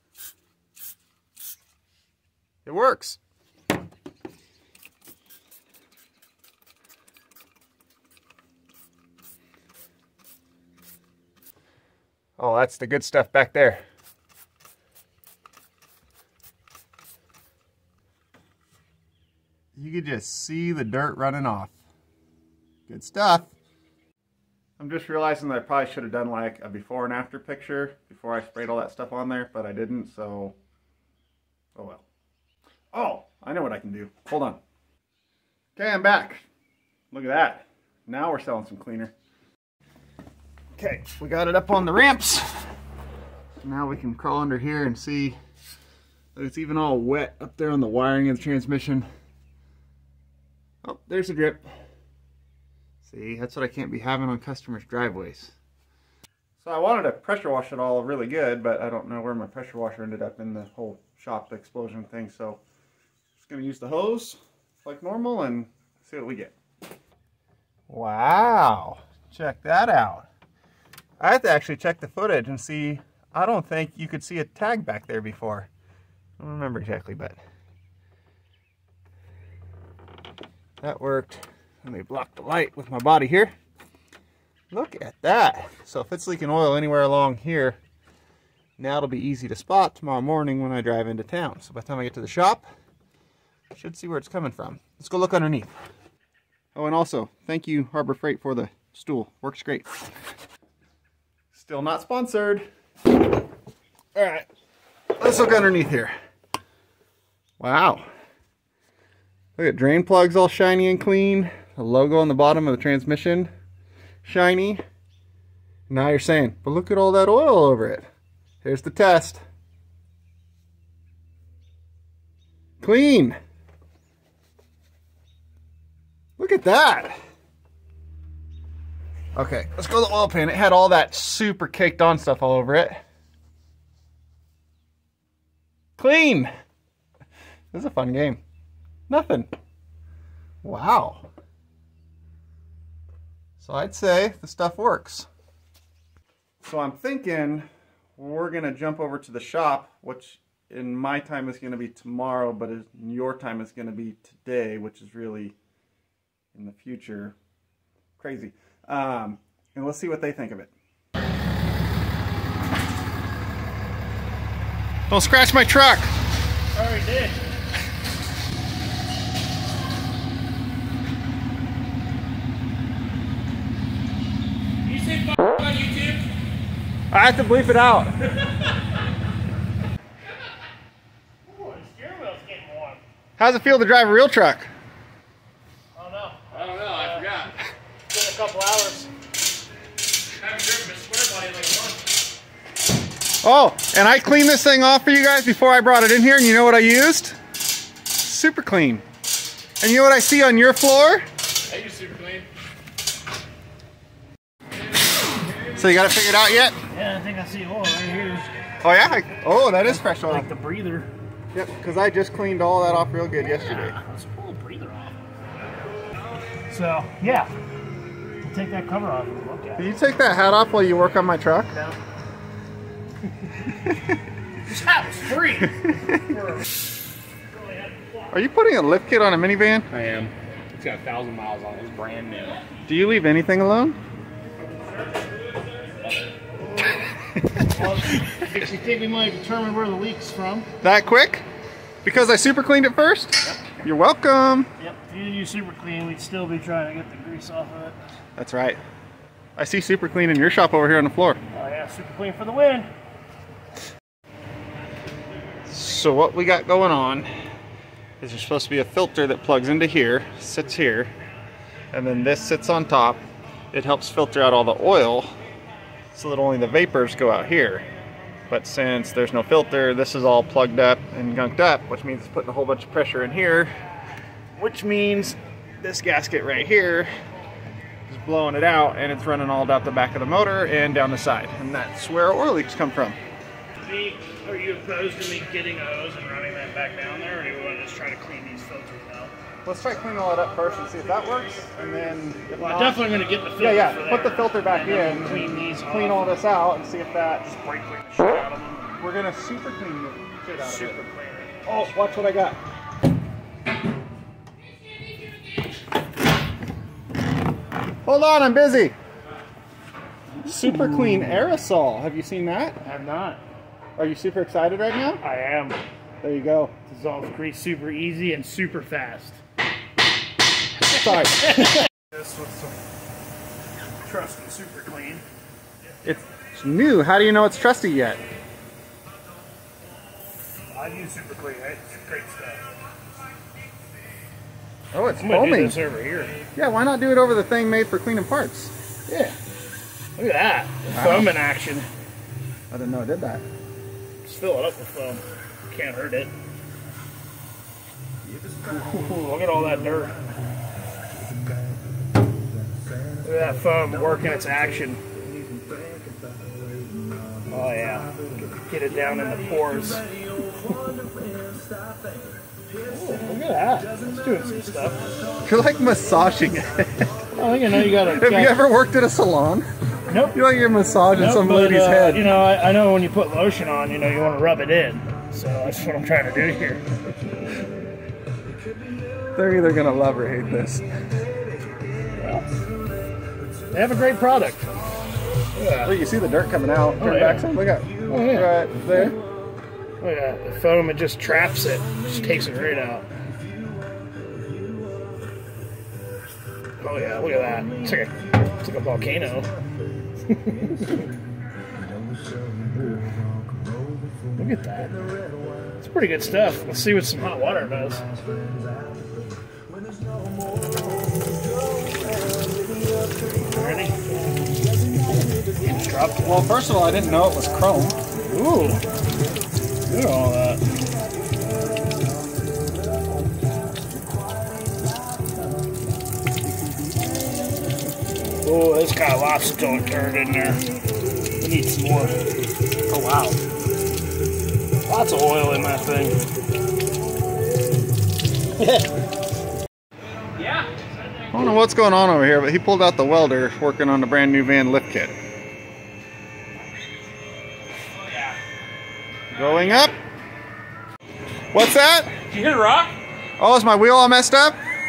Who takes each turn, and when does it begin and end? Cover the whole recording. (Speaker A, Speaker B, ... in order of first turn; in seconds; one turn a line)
Speaker A: 2.6-3.2
Speaker A: 12.4-13.8
Speaker A: 19.8-21.8
Speaker A: 22.9-23.5
Speaker A: 24.8-30.6
Speaker A: 31.7-32.0
Speaker A: 32.9-34.6
Speaker A: 35.8-36.5
Speaker A: 37.1-39.1
Speaker A: 40.8-42.6
Speaker A: 43.6-45.4
Speaker A: 46.3-49.0
Speaker A: 50.8-51.7
Speaker A: 53.0-55.5
Speaker A: 56.6-62.6
Speaker A: 63.4-66.5
Speaker A: 67.9-70.3
Speaker A: 71.2-75.7
Speaker A: 76.4-77.4
Speaker A: 80.8-83.5
Speaker A: 84.7-87.8
Speaker A: 88.8-92.7
Speaker A: 93.7-95.7
Speaker A: 96.7-100.0
Speaker A: 101.5-102.7
Speaker A: 104.1-104.5
Speaker A: 105.2-106.1
Speaker A: 107.6-108.0
Speaker A: 109.6-113.5
Speaker A: 114.2-114.8
Speaker A: 115.9-118.0
Speaker A: 118.6-119.4
Speaker A: 122.8-123.4
Speaker A: 126.4-127.1
Speaker A: 129.3-133.0
Speaker A: 136.0-136.5
Speaker A: 137.7-138.4
Speaker A: 139.1-139.5
Speaker A: 140.6-141.3
Speaker A: 143.6-145.3
Speaker A: 146.6-155.5
Speaker A: 156.5-157.3
Speaker A: 158.2-160.7
Speaker A: 165.1-166.1
Speaker B: 166.7-167.4
Speaker C: 174.8-176.2
Speaker A: 177.1-178.2
Speaker B: 181.4-183.0
Speaker A: 183.4-184.7
Speaker B: 185.9-187.3
Speaker C: 186.5-187.5
Speaker B: 188.1-189.1
Speaker C: 190.4-192.0
Speaker A: 193.4-197.4
Speaker A: 198.1-199.0
Speaker A: 199.8-201.2
Speaker C: 201.7-202.5
Speaker A: 205.8-206.8
Speaker B: 206.9-208.5
Speaker A: 208.8-210.4
Speaker B: 209.8-211.1
Speaker A: 211.5-214.0
Speaker B: 213.4-215.2
Speaker B: 216.7-217.5
Speaker B: 218.4-219.9
Speaker A: 219.8-221.8
Speaker B: 224.7-226.7
Speaker A: 225.9-226.2
Speaker B: 227.5-228.3
Speaker A: 228.3-229.9
Speaker C: 229.9-232.6
Speaker A: 232.8-234.0
Speaker B: 234.8-235.2
Speaker C: 236.0-236.3
Speaker A: 237.4-238.4
Speaker B: 237.7-240.7
Speaker A: 240.8-241.4
Speaker A: 242.0-244.7
Speaker B: 244.8-248.0
Speaker A: 248.4-248.8
Speaker A: 249.6-251.4
Speaker B: 251.5-252.9
Speaker A: 255.7-257.3
Speaker A: 258.2-261.1
Speaker A: 261.9-263.2
Speaker A: 263.7-265.3
Speaker A: 266.1-267.9
Speaker A: 268.5-273.7
Speaker A: 274.6-277.1
Speaker A: 278.1-283.2
Speaker B: 283.8-289.3
Speaker A: 289.6-293.0
Speaker B: 292.5-296.4
Speaker A: 293.6-297.6
Speaker B: 297.4-299.0
Speaker A: 299.0-301.0
Speaker B: 300.6-301.6
Speaker A: 301.6-302.6
Speaker A: 308.0-308.9
Speaker A: 310.4-312.8
Speaker B: 312.8-313.4
Speaker A: 314.0-315.2
Speaker B: 315.2-315.8
Speaker A: 316.2-316.8
Speaker B: 316.9-319.4
Speaker A: 320.9-321.8
Speaker B: 322.0-322.8
Speaker B: 324.0-325.2
Speaker A: 326.0-328.2
Speaker B: 330.7-332.6
Speaker A: 334.9-335.8
Speaker B: 335.2-336.4
Speaker A: 336.5-338.7
Speaker B: 339.1-339.4
Speaker B: 340.1-341.9
Speaker A: 340.9-341.3
Speaker A: 342.7-343.4
Speaker B: 344.2-346.3
Speaker B: 348.7-350.2
Speaker B: 353.2-355.0
Speaker B: 357.5-358.1
Speaker B: 358.6-360.1
Speaker B: 362.8-365.1
Speaker A: 365.4-367.1
Speaker B: 367.3-368.6
Speaker A: 367.9-369.6
Speaker B: 370.1-370.4
Speaker A: 370.3-372.3
Speaker B: 371.1-376.8
Speaker A: 379.4-380.9
Speaker B: 382.2-382.5
Speaker B: 383.7-384.7
Speaker B: 385.6-385.9
Speaker A: 385.8-389.2
Speaker B: 387.0-389.1
Speaker B: 390.0-393.1
Speaker B: 396.8-399.5
Speaker B: 400.3-401.0
Speaker B: 404.4-405.0
Speaker B: 405.8-408.0
Speaker B: 413.4-414.0
Speaker B: 415.6-416.4
Speaker A: 416.2-418.0
Speaker B: 418.2-418.8
Speaker B: 419.9-420.6
Speaker B: 428.4-430.6
Speaker B: 431.4-432.1
Speaker B: 432.9-433.4
Speaker B: 434.9-436.2
Speaker B: 438.6-438.9
Speaker C: 440.4-440.7
Speaker A: 441.3-445.1
Speaker A: 449.3-449.9
Speaker C: 449.4-449.9
Speaker A: 451.5-452.1
Speaker C: 452.3-452.9
Speaker A: 453.4-454.6